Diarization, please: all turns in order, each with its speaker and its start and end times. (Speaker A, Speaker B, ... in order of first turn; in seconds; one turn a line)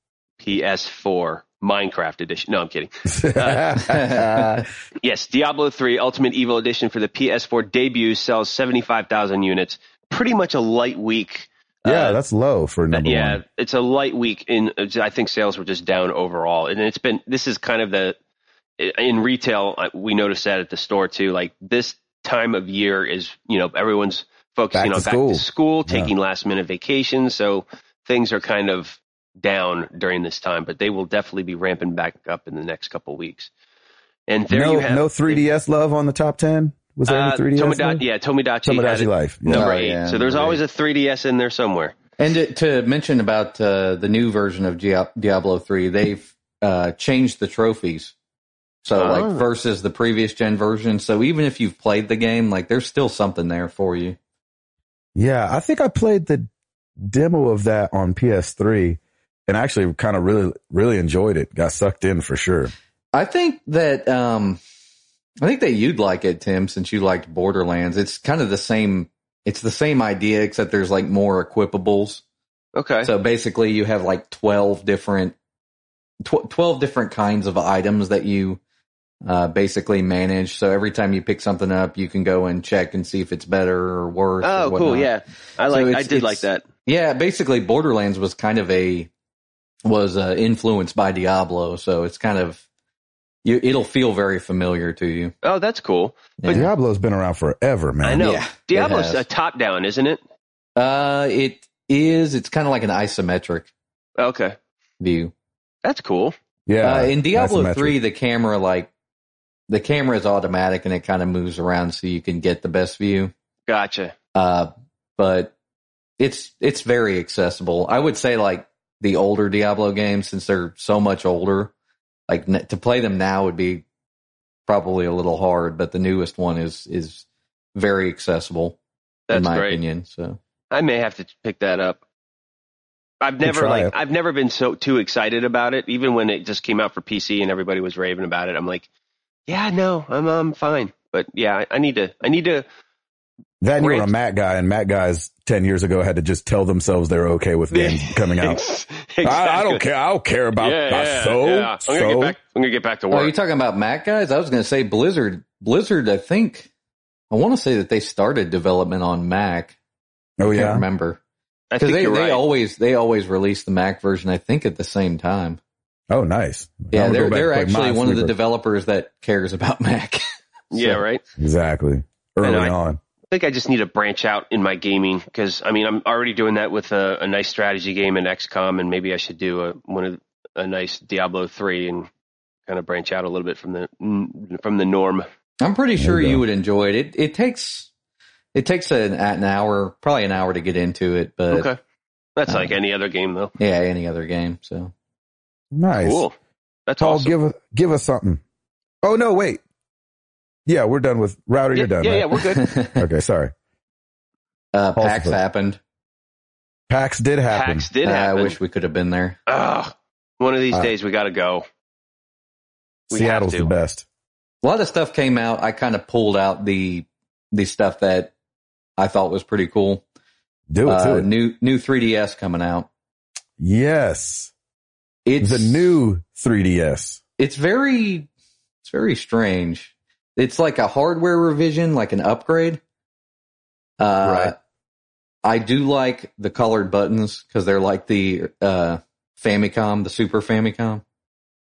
Speaker A: 0.4-3.9
Speaker B: 3.1-4.7
Speaker C: 3.9-4.6
Speaker A: 5.0-12.2
Speaker B: 11.9-13.4
Speaker A: 12.9-18.2
Speaker A: 18.8-33.5
Speaker B: 24.7-26.1
Speaker A: 34.3-35.4
Speaker B: 34.5-38.0
Speaker A: 37.1-42.0
Speaker B: 38.6-39.7
Speaker C: 39.5-40.6
Speaker C: 42.2-48.1
Speaker C: 48.8-54.2
Speaker A: 49.0-49.4
Speaker B: 55.1-56.5
Speaker B: 57.0-62.7
Speaker C: 63.1-64.6
Speaker C: 65.4-72.2
Speaker A: 72.8-73.1
Speaker C: 73.0-75.4
Speaker C: 76.2-78.6
Speaker C: 79.2-85.1
Speaker A: 84.4-86.7
Speaker C: 85.7-89.1
Speaker C: 89.8-92.6
Speaker C: 93.5-95.3
Speaker A: 95.4-96.6
Speaker C: 96.4-96.7
Speaker B: 96.5-98.3
Speaker A: 98.0-100.2
Speaker C: 98.2-99.2
Speaker C: 100.8-103.7
Speaker A: 104.2-104.6
Speaker C: 105.0-105.3
Speaker A: 105.8-106.3
Speaker B: 106.7-108.0
Speaker C: 106.8-108.9
Speaker C: 109.7-113.3
Speaker A: 113.7-114.2
Speaker C: 114.3-115.5
Speaker C: 116.2-121.7
Speaker C: 122.3-123.8
Speaker C: 124.7-128.8
Speaker A: 129.3-129.8
Speaker C: 129.3-130.4
Speaker A: 130.7-132.0
Speaker A: 133.2-138.9
Speaker B: 133.4-133.9
Speaker A: 139.5-142.7
Speaker B: 143.6-148.6
Speaker A: 143.8-144.1
Speaker A: 147.7-149.8
Speaker B: 149.2-152.4
Speaker A: 150.6-153.3
Speaker C: 153.1-156.7
Speaker C: 157.3-159.8
Speaker B: 160.4-160.8
Speaker C: 160.4-161.2
Speaker A: 161.7-162.4
Speaker C: 161.8-165.6
Speaker B: 166.1-168.3
Speaker C: 166.9-170.2
Speaker A: 170.7-171.2
Speaker B: 171.4-173.0
Speaker A: 172.4-172.8
Speaker A: 173.3-182.1
Speaker A: 182.7-185.3
Speaker C: 185.6-187.9
Speaker B: 186.0-186.4
Speaker C: 188.6-191.7
Speaker A: 191.5-191.8
Speaker A: 192.4-193.5
Speaker C: 193.6-194.9
Speaker B: 195.7-196.2
Speaker A: 195.9-196.3
Speaker A: 196.9-197.3
Speaker B: 197.0-198.4
Speaker B: 199.0-199.6
Speaker B: 200.7-202.4
Speaker A: 201.7-202.7
Speaker C: 202.6-203.1
Speaker B: 203.0-203.5
Speaker C: 204.7-205.8
Speaker B: 205.0-205.4
Speaker B: 206.9-207.9
Speaker A: 207.5-208.6
Speaker C: 208.0-209.4
Speaker A: 209.5-211.7
Speaker B: 213.1-214.1
Speaker A: 213.1-213.8
Speaker C: 214.6-218.3
Speaker C: 219.0-220.0
Speaker B: 220.7-221.3
Speaker C: 220.9-222.9
Speaker B: 223.6-224.5
Speaker C: 225.2-226.0
Speaker B: 225.4-227.2
Speaker C: 227.4-228.3
Speaker C: 228.8-232.8
Speaker C: 234.0-234.6
Speaker B: 234.2-234.5
Speaker C: 235.4-241.0